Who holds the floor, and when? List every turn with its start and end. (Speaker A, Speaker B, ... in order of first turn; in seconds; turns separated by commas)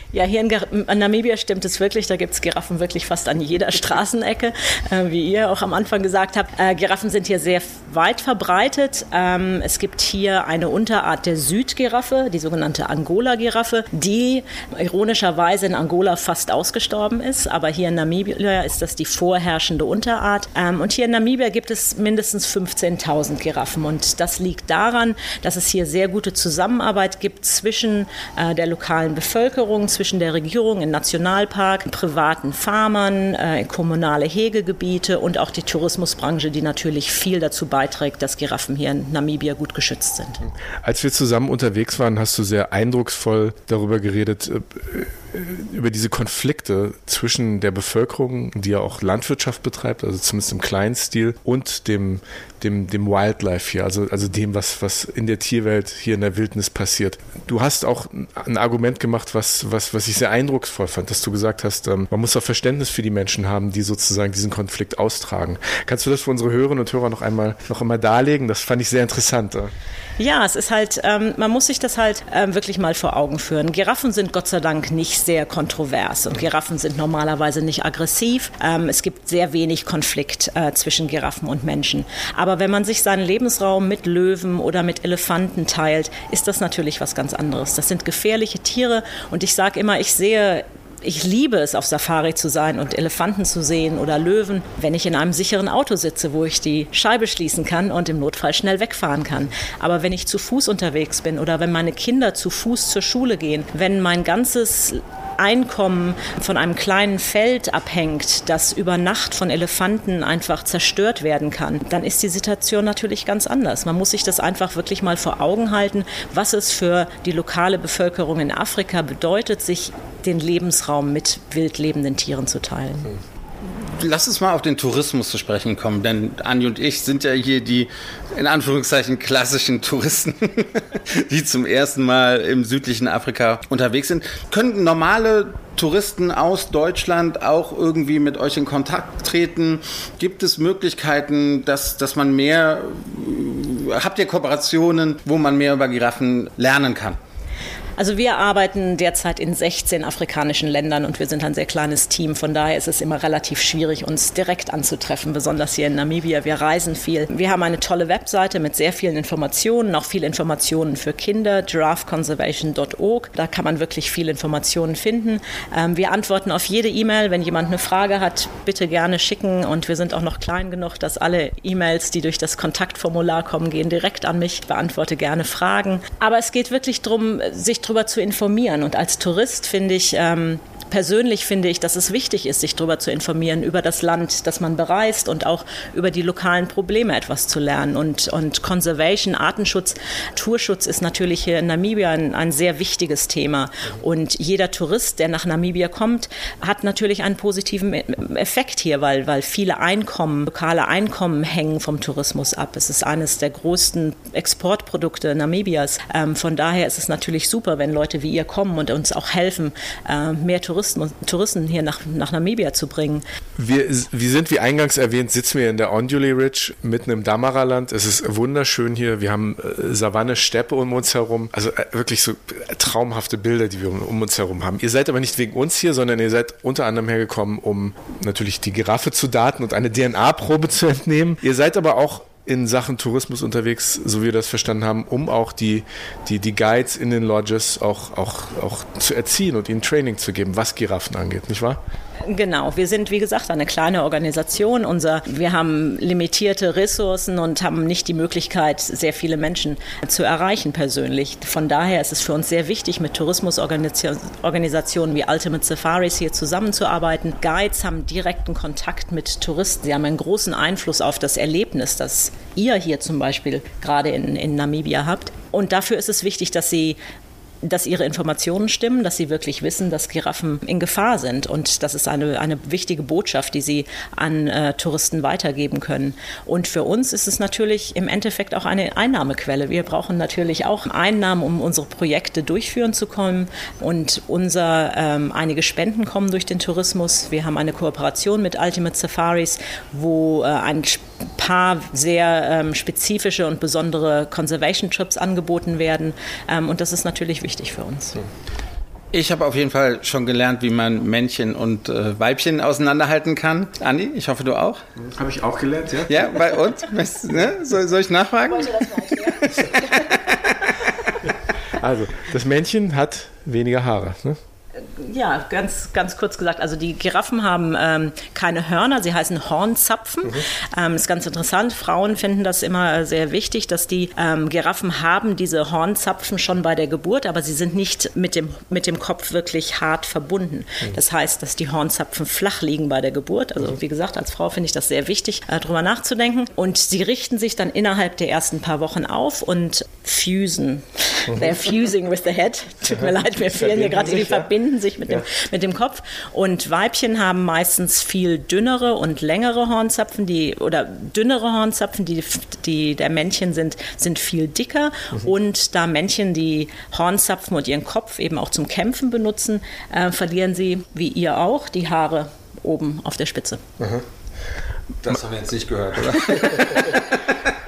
Speaker A: 0.1-40.4, Speaker B: 40.4-69.7, Speaker A: 70.2-123.2, Speaker C: 123.6-147.2, Speaker A: 148.0-213.2, Speaker B: 213.6-241.8, Speaker A: 242.3-267.0, Speaker A: 267.6-298.2, Speaker C: 299.1-304.8, Speaker B: 305.0-306.3, Speaker C: 306.1-308.9, Speaker A: 308.5-310.1, Speaker C: 310.1-310.5, Speaker B: 311.8-314.4, Speaker A: 314.8-363.6, Speaker B: 341.3-341.6, Speaker B: 342.9-344.5, Speaker B: 363.8-364.0, Speaker C: 365.0-367.1, Speaker B: 366.0-367.0